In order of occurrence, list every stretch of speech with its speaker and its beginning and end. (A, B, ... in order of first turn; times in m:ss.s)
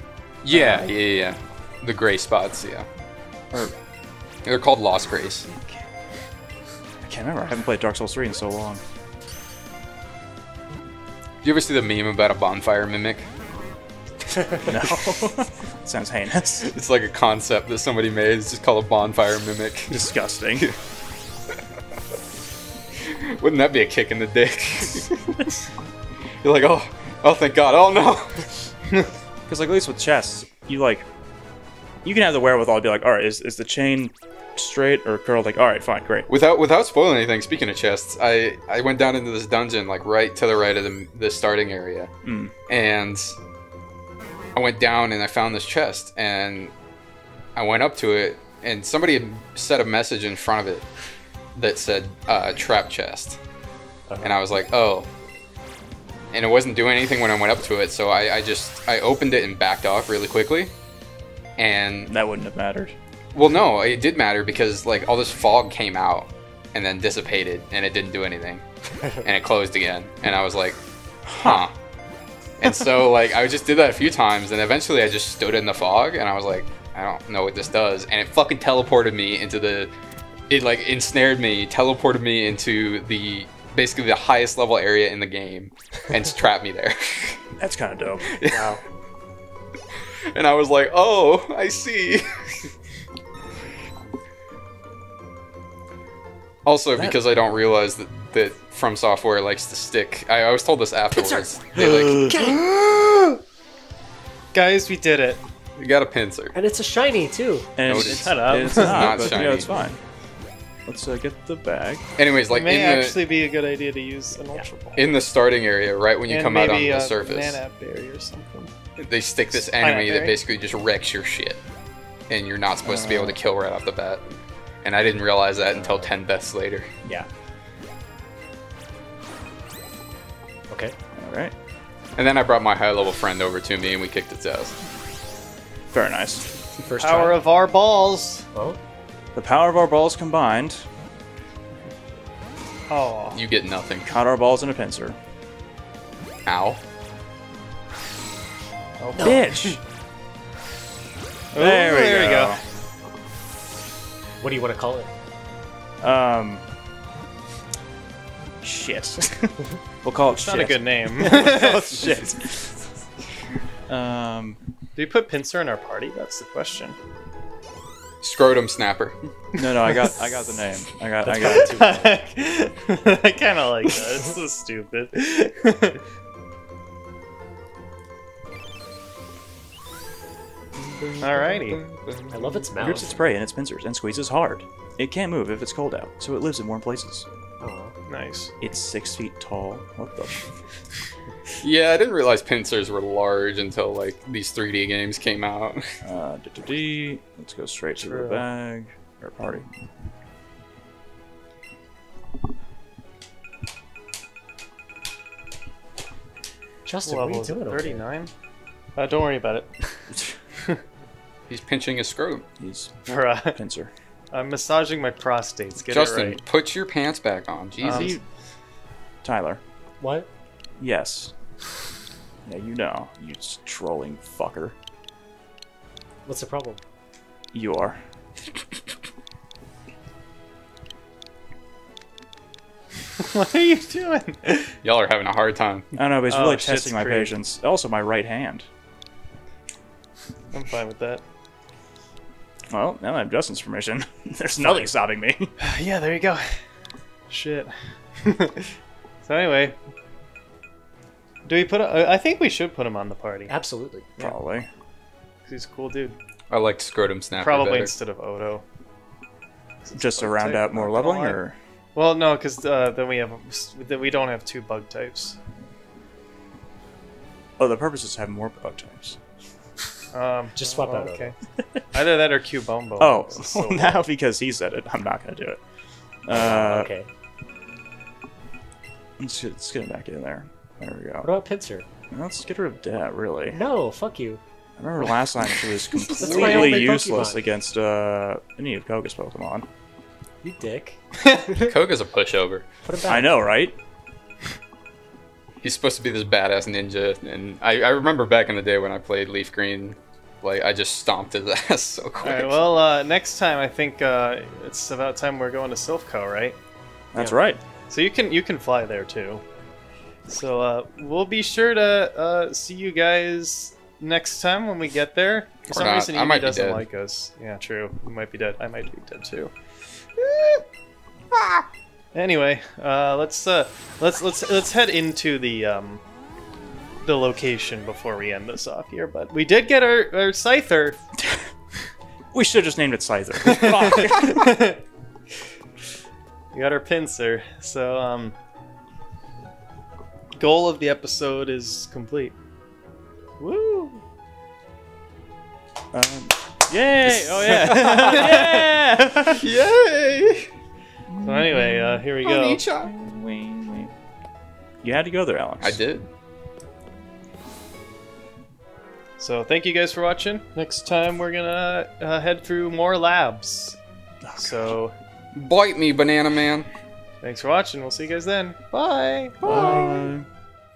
0:00.4-0:02.9 A
0:00.5-0:00.9 B
0:04.4-0:05.5 A
0:05.6-0:05.8 B
0:07.0-0:08.8 B
0:11.4-0:13.3 A
0:14.6-0:16.7 B
0:16.6-0:20.0 A
0:19.9-0:20.7 B
0:23.0-0:25.5 A
0:26.4-0:28.5 A
0:29.5-0:31.1 B
0:32.0-0:36.3 B
0:36.3-0:42.1 A
0:42.2-0:42.5 B
0:42.7-0:43.4 A
0:44.5-0:46.7 A
0:47.6-0:50.9 A
0:51.5-0:53.4 A
0:54.1-0:54.4 C
0:54.2-0:55.1 A
0:56.3-1:00.7 A
1:01.6-1:02.1 A
1:02.1-1:02.9 B
1:03.3-1:10.8 A
1:11.2-1:11.6 B
1:11.4-1:11.7 A
1:12.6-1:19.9 A
1:20.5-1:27.4 A
1:27.6-1:28.2 B
1:28.3-1:28.7 A
1:28.5-1:28.8 C
1:30.3-1:32.7 A
1:36.6-1:42.5 A
1:41.1-1:41.4 C
1:41.7-1:42.4 B
1:42.2-1:42.6 C
1:44.5-1:45.4 D
1:45.8-1:46.5 A
1:46.5-1:47.7 C
1:47.8-1:50.0 B
1:47.8-1:49.7 A
1:47.9-1:49.5 D
1:50.8-1:52.0 B
1:52.2-1:53.2 A
1:52.5-1:55.1 D
1:55.0-1:57.6 A
1:56.3-1:58.7 D
1:59.0-2:01.6 A
1:59.5-2:00.4 D
2:02.3-2:06.9 A
2:02.8-2:03.4 B
2:05.8-2:06.1 C
2:10.7-2:10.9 C
2:11.1-2:11.5 B
2:12.2-2:14.7 A
2:15.9-2:16.4 B
2:16.8-2:17.4 C
2:17.0-2:18.5 D
2:18.5-2:18.8 C
2:19.3-2:20.8 B
2:22.9-2:23.4 D
2:23.3-2:24.1 A
2:24.0-2:25.2 B
2:26.4-2:26.8 A
2:29.0-2:29.8 D
2:29.2-2:29.8 B
2:31.5-2:32.6 D
2:31.5-2:32.6 B
2:34.4-2:35.1 C
2:36.0-2:36.6 B
2:38.6-2:42.8 B
2:40.3-2:41.9 D
2:43.9-2:44.6 B
2:45.0-2:47.0 D
2:48.2-2:49.2 A
2:49.5-2:50.2 D
2:49.6-2:51.7 B
2:51.2-2:52.2 C
2:51.3-2:56.0 D
3:01.0-3:02.5 A
3:01.2-3:01.8 D
3:02.3-3:03.2 C
3:02.8-3:07.2 B
3:07.6-3:07.9 C
3:08.1-3:08.5 D
3:08.6-3:10.4 B
3:11.6-3:15.8 A
3:16.0-3:19.7 B
3:18.0-3:18.4 D
3:26.8-3:28.0 C
3:27.0-3:28.3 D
3:29.0-3:29.7 D
3:31.5-3:32.4 A
3:32.6-3:33.9 B
3:33.0-3:33.6 D
3:34.3-3:36.4 D
3:35.9-3:38.1 A
3:37.8-3:38.2 B
3:37.8-3:38.2 D
3:39.2-3:39.6 B
3:40.0-3:40.3 C
3:40.8-3:41.3 B
3:42.4-3:44.7 B
3:46.2-3:46.8 C
3:47.5-3:48.0 B
3:53.2-3:54.7 D
3:54.8-3:55.9 A
3:55.9-3:58.6 B
3:56.3-3:57.3 D
4:00.5-4:01.2 D
4:02.7-4:05.5 B
4:04.6-4:04.9 C
4:05.6-4:06.6 D
4:07.3-4:08.7 D
4:09.2-4:09.8 D
4:11.4-4:13.5 D
4:13.5-4:14.1 C
4:14.2-4:14.7 B
4:15.4-4:16.2 D
4:16.5-4:17.9 A
4:17.4-4:18.6 D
4:19.8-4:21.4 D
4:19.9-4:21.6 B
4:21.9-4:25.4 D
4:27.6-4:29.2 B
4:30.1-4:31.3 D
4:30.6-4:31.3 C
4:31.9-4:34.0 D
4:33.0-4:35.6 B
4:36.2-4:36.9 B
4:36.3-4:37.1 C
4:39.2-4:41.3 B
4:41.2-4:41.8 C
4:42.1-4:43.6 B
4:43.5-4:44.4 C
4:44.8-4:49.7 B
4:46.2-4:47.4 C
4:46.2-4:46.8 D
4:50.4-4:51.7 C
4:51.5-4:52.6 A
4:52.8-4:53.5 C
4:53.1-4:53.8 B
4:55.6-5:02.7 A
5:02.2-5:06.6 D
5:07.1-5:07.6 B
5:07.9-5:09.4 D
5:10.3-5:19.5 D
5:15.7-5:16.8 A
5:20.2-5:20.6 A
5:21.3-5:21.6 A
5:22.1-5:26.0 D
5:27.0-5:31.0 D
5:32.3-5:34.6 B
5:33.5-5:34.8 D
5:36.5-5:38.3 D
5:40.4-5:42.3 D
5:43.4-5:44.0 D
5:45.9-5:49.4 B
5:47.0-5:48.6 A
5:49.3-5:50.5 A
5:51.1-5:52.0 B
5:51.2-5:52.6 D
5:52.2-5:52.9 A
5:52.8-5:53.9 B
5:54.8-5:55.8 B
5:55.6-5:56.1 A
5:59.2-6:03.8 D
6:04.2-6:04.7 B
6:04.4-6:04.9 D
6:05.3-6:06.7 A
6:07.2-6:09.8 D
6:09.4-6:10.3 B
6:09.4-6:10.1 C